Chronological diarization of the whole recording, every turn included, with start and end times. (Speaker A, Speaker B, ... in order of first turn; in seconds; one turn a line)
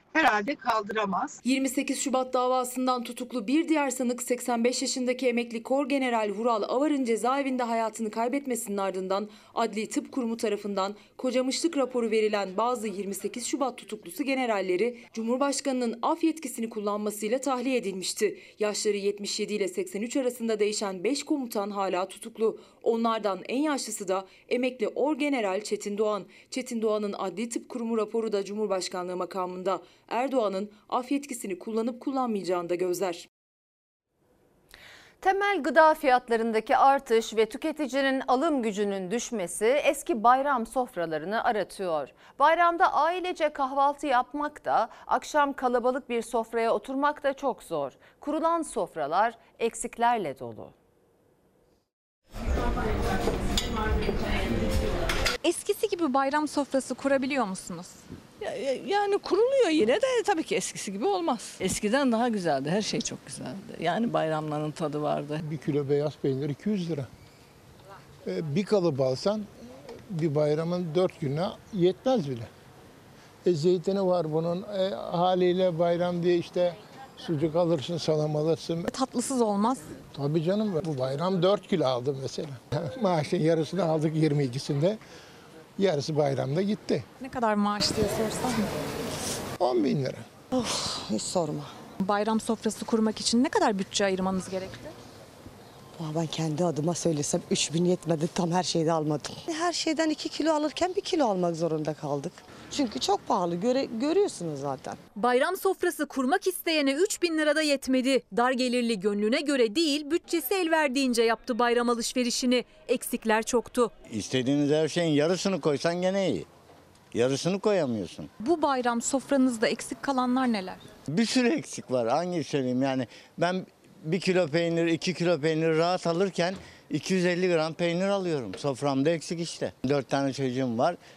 Speaker A: 0.1-1.3
Speaker B: 1.5-33.2
Speaker C: 35.2-50.7
Speaker D: 55.4-58.0
Speaker E: 58.4-65.4
Speaker A: 65.5-67.1
Speaker A: 68.3-69.5
Speaker A: 70.1-72.5
Speaker A: 73.5-78.8
Speaker D: 78.9-79.8
Speaker A: 80.2-85.0
Speaker A: 85.8-87.0
Speaker D: 87.3-88.0
Speaker A: 89.6-90.2
Speaker F: 90.5-91.7
Speaker D: 92.0-94.9
Speaker F: 96.0-105.0
Speaker D: 105.2-113.9
Speaker G: 114.1-116.5
Speaker G: 117.1-118.3
Speaker D: 118.4-120.8
Speaker G: 121.1-131.0